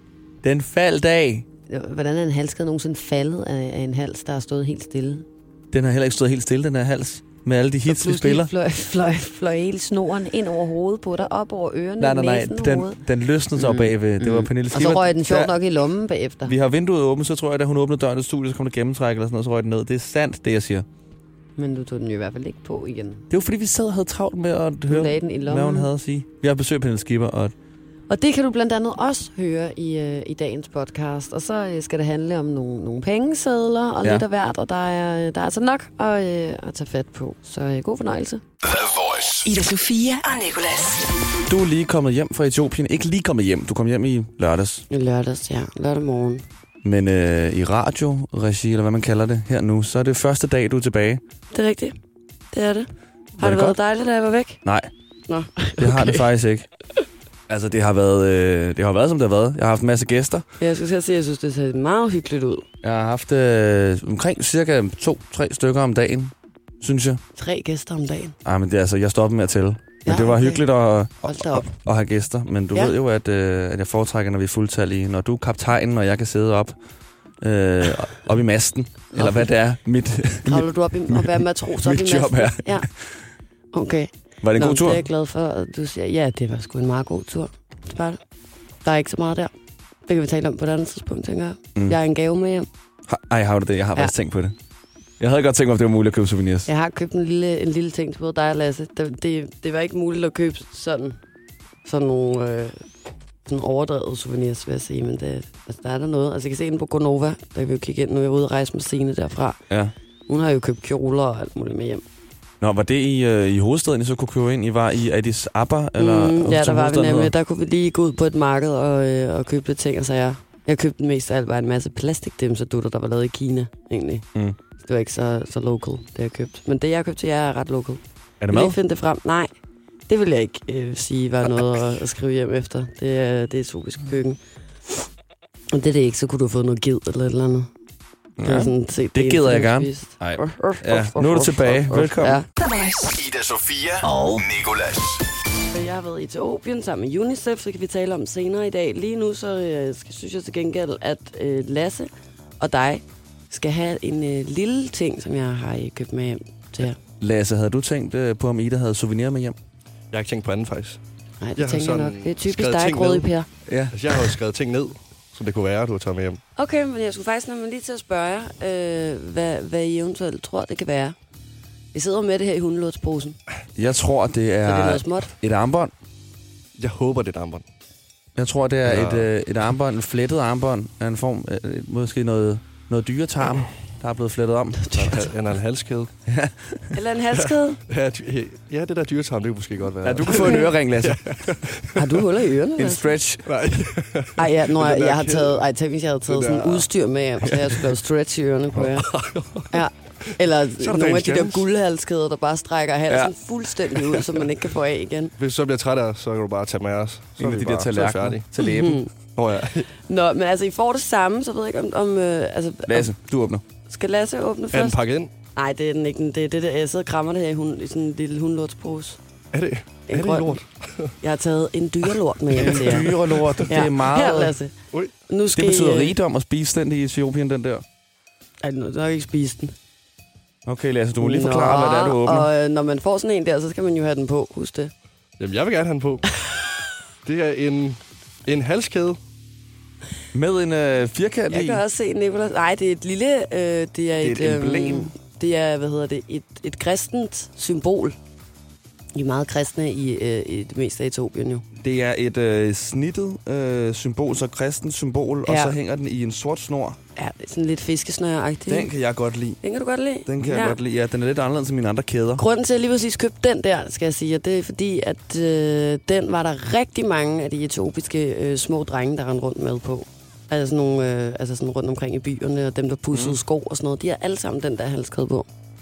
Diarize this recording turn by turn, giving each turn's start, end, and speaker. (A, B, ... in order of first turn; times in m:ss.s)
0:00.4-0:01.5 A
0:01.7-0:05.3 B
0:05.7-0:08.5 A
0:07.9-0:13.0 B
0:12.0-0:15.6 A
0:13.6-0:16.5 B
0:16.4-0:20.9 A
0:21.6-0:23.3 B
0:23.3-0:27.5 A
0:24.9-0:25.9 B
0:28.1-0:38.4 B
0:38.6-0:39.5 C
0:39.4-0:41.1 D
0:41.5-0:44.8 A
0:44.9-0:46.4 B
0:46.8-0:51.2 A
0:51.5-0:52.0 B
0:52.5-0:54.6 B
0:53.4-0:53.8 A
0:54.6-0:54.9 A
0:55.3-0:56.3 B
0:55.8-0:56.7 A
0:57.5-1:00.5 A
1:00.6-1:02.6 B
1:02.8-1:07.2 A
1:07.4-1:08.4 B
1:08.4-1:16.8 A
1:10.0-1:10.6 B
1:11.2-1:11.7 B
1:17.4-1:23.3 A
1:19.1-1:19.5 B
1:20.4-1:22.9 B
1:23.7-1:28.2 B
1:24.4-1:25.0 A
1:28.8-1:29.5 B
1:30.1-1:32.7 B
1:33.1-1:34.6 A
1:35.2-1:36.7 A
1:36.7-1:41.2 B
1:41.8-1:42.9 B
1:43.5-1:49.6 B
1:50.3-1:52.0 B
1:52.6-1:57.3 A
1:56.0-2:04.3 B
2:04.8-2:09.6 B
2:08.4-2:08.8 A
2:10.1-2:15.0 B
2:15.7-2:17.7 B
2:18.4-2:22.4 A
2:18.4-2:22.5 B
2:22.6-2:23.1 D
2:23.1-2:25.2 C
2:24.0-2:24.4 B
2:25.7-2:37.0 B
2:37.2-2:39.6 A
2:40.1-2:41.0 E
2:41.4-2:43.5 B
2:41.6-2:43.3 E
2:43.7-2:44.0 A
2:43.9-2:46.4 E
2:46.6-2:51.2 B
2:51.9-2:53.4 B
2:53.8-2:55.9 A
2:54.6-2:55.3 B
2:56.8-2:57.7 E
2:58.4-3:05.3 A
2:58.8-2:59.3 E
3:04.9-3:05.2 B
3:04.9-3:06.1 E
3:06.3-3:06.9 A
3:06.9-3:07.8 B
3:07.4-3:12.2 E
3:10.0-3:11.6 A
3:12.0-3:13.1 B
3:12.8-3:13.5 A
3:13.4-3:15.6 E
3:14.4-3:19.1 B
3:16.3-3:16.9 E
3:17.4-3:17.9 E
3:18.8-3:19.7 E
3:19.7-3:25.3 B
3:20.8-3:21.6 A
3:23.1-3:23.4 A
3:25.4-3:29.9 E
3:27.4-3:29.0 A
3:28.6-3:29.1 B
3:29.9-3:33.1 B
3:32.9-3:33.6 A
3:33.9-3:35.0 B
3:34.7-3:35.3 E
3:35.6-3:39.2 B
3:39.5-3:41.2 E
3:40.1-3:43.1 B
3:42.5-3:43.7 E
3:42.7-3:44.6 A
3:43.6-3:46.1 B
3:45.5-3:47.8 A
3:48.6-3:49.7 B
3:50.7-3:52.5 A
3:51.2-3:54.9 B
3:55.4-3:56.4 E
3:57.2-3:59.2 E
4:00.3-4:01.8 A
4:01.5-4:08.2 B
4:04.2-4:05.1 A
4:09.2-4:11.6 B
4:11.8-4:17.0 A
4:15.5-4:15.8 B
4:17.2-4:18.9 B
4:18.7-4:19.6 A
4:19.6-4:20.8 B
4:20.3-4:22.4 A
4:22.4-4:35.5 B
4:33.1-4:33.4 A